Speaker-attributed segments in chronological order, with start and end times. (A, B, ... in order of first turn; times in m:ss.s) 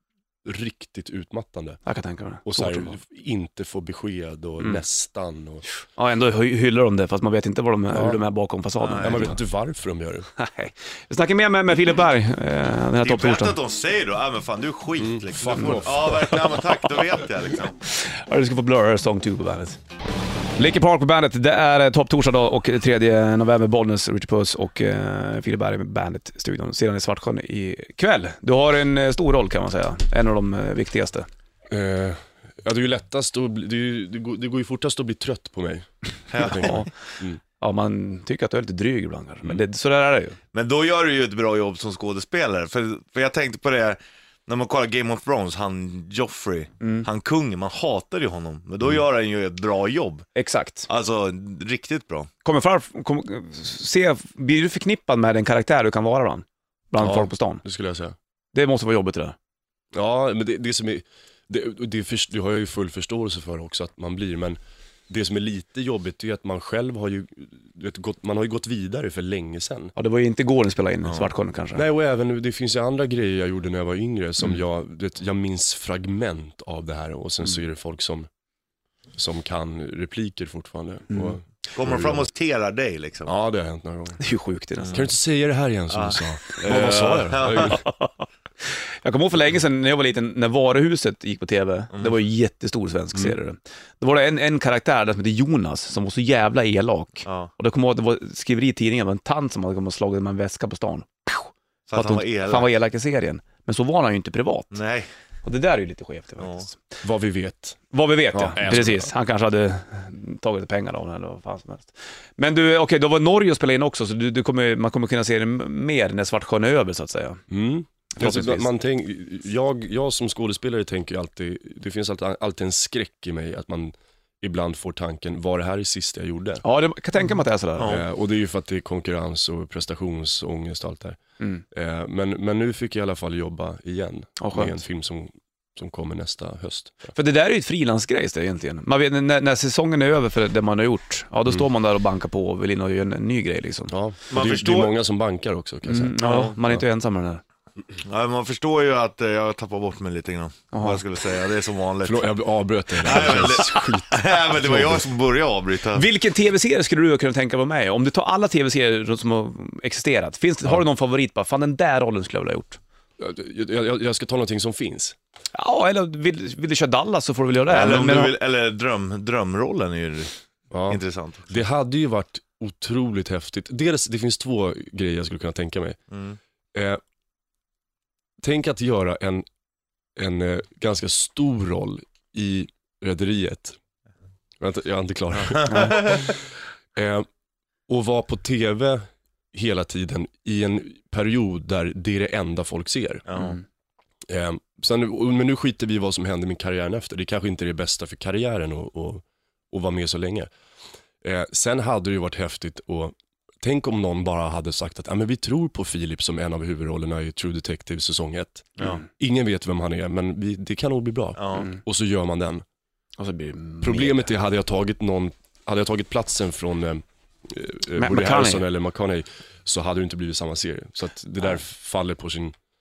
0:00.4-0:01.8 A
0:01.8-0:03.0 B
0:02.4-0:05.6 A
0:05.9-0:09.4 B
0:07.9-0:08.2 A
0:08.8-0:09.3 C
0:09.0-0:10.3 A
0:10.4-0:13.6 B
0:13.0-0:17.8 C
0:15.0-0:16.4 A
0:17.8-0:19.8 B
0:20.6-0:31.3 B
0:31.7-0:37.4 A
0:36.3-0:36.9 C
0:36.4-0:36.9 B
0:37.6-0:40.4 B
0:40.5-0:50.2 C
0:46.8-0:47.1 B
0:50.3-0:50.9 B
0:50.9-0:52.3 C
0:52.4-0:57.6 B
0:57.0-0:58.2 A
0:58.5-0:59.4 B
0:59.9-1:04.6 A
1:05.1-1:09.9 A
1:10.0-1:11.8 B
1:11.7-1:18.3 A
1:19.2-1:22.3 A
1:21.7-1:23.3 C
1:23.3-1:24.2 A
1:24.2-1:25.0 B
1:24.8-1:25.0 C
1:24.9-1:27.8 A
1:25.9-1:27.8 C
1:27.6-1:44.8 B
1:37.2-1:37.5 C
1:41.9-1:42.7 C
1:44.7-1:45.1 C
1:45.4-1:46.8 B
1:46.4-1:46.6 C
1:47.0-1:47.8 A
1:47.9-1:57.4 B
1:48.3-1:49.1 A
1:57.5-2:06.6 A
1:58.1-1:58.7 B
2:06.6-2:08.0 B
2:07.8-2:11.2 A
2:11.7-2:17.1 A
2:14.4-2:14.7 B
2:17.1-2:23.9 B
2:23.9-2:26.1 A
2:24.3-2:24.9 C
2:25.8-2:27.4 B
2:26.2-2:26.5 C
2:28.0-2:32.3 C
2:30.7-2:31.0 B
2:32.0-2:35.1 A
2:33.0-2:36.0 C
2:35.9-2:42.8 B
2:43.2-2:45.2 A
2:45.5-2:48.3 B
2:47.7-2:50.3 C
2:50.7-2:56.0 A
2:50.9-2:51.6 C
2:56.1-2:56.4 C
2:56.7-2:57.0 A
2:58.4-2:59.4 A
3:00.2-3:03.8 A
3:04.6-3:06.4 A
3:05.4-3:06.3 C
3:05.7-3:06.0 B
3:06.9-3:07.3 A
3:07.9-3:13.2 A
3:13.3-3:13.6 C
3:14.3-3:20.5 A
3:21.2-3:32.6 A
3:31.4-3:31.7 C
3:31.5-3:31.8 B
3:33.2-3:34.2 B
3:33.8-3:42.5 A
3:38.0-3:38.6 B